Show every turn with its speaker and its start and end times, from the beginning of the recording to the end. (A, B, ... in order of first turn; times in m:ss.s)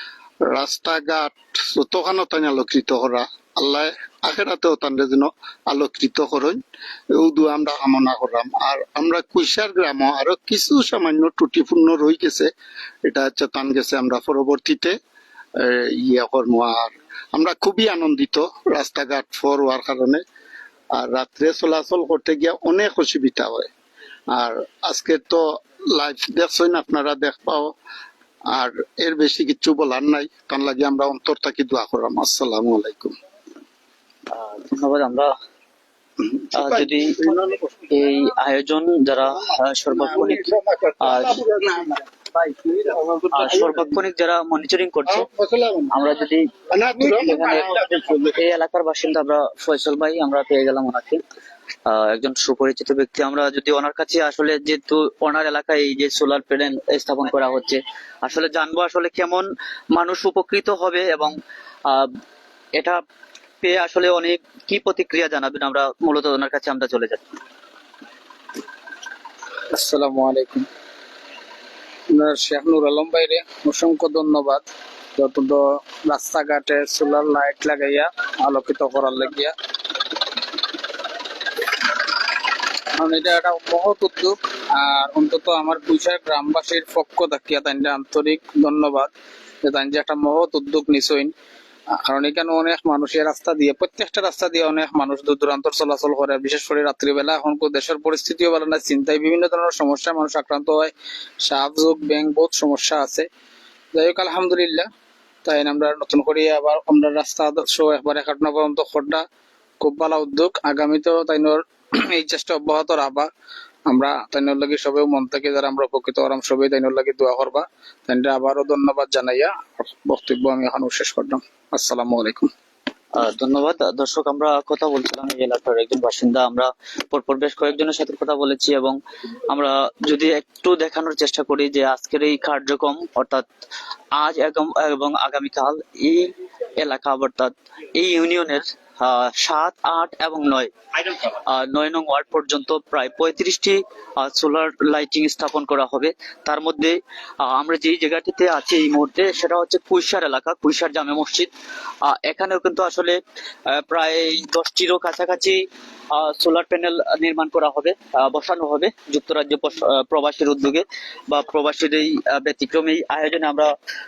0:00.4-0:12.5 A
0:13.0-0:15.0 A
0:15.6-0:20.2 A
0:20.9-0:23.7 A
0:24.3-0:27.7 A
0:28.5-0:33.2 A
0:34.3-0:35.3 B
0:36.2-0:38.0 A
0:36.5-0:37.2 B
0:37.9-0:41.4 B
0:39.9-0:43.9 A
0:43.3-0:45.3 B
0:45.0-0:45.9 A
0:45.9-0:51.2 B
0:46.7-0:48.3 A
0:51.9-1:01.3 B
1:01.9-1:02.2 B
1:03.6-1:07.2 B
1:09.7-1:10.7 C
1:12.1-1:19.5 C
1:23.0-1:29.1 C
1:29.6-1:31.3 C
1:32.0-1:43.3 C
1:43.9-1:44.9 C
1:45.4-1:49.2 C
1:49.8-1:53.3 C
1:53.9-2:02.5 C
2:03.2-2:13.4 B
2:14.2-2:20.7 B
2:21.3-2:31.5 B
2:32.0-2:33.2 B
2:33.7-2:43.7 B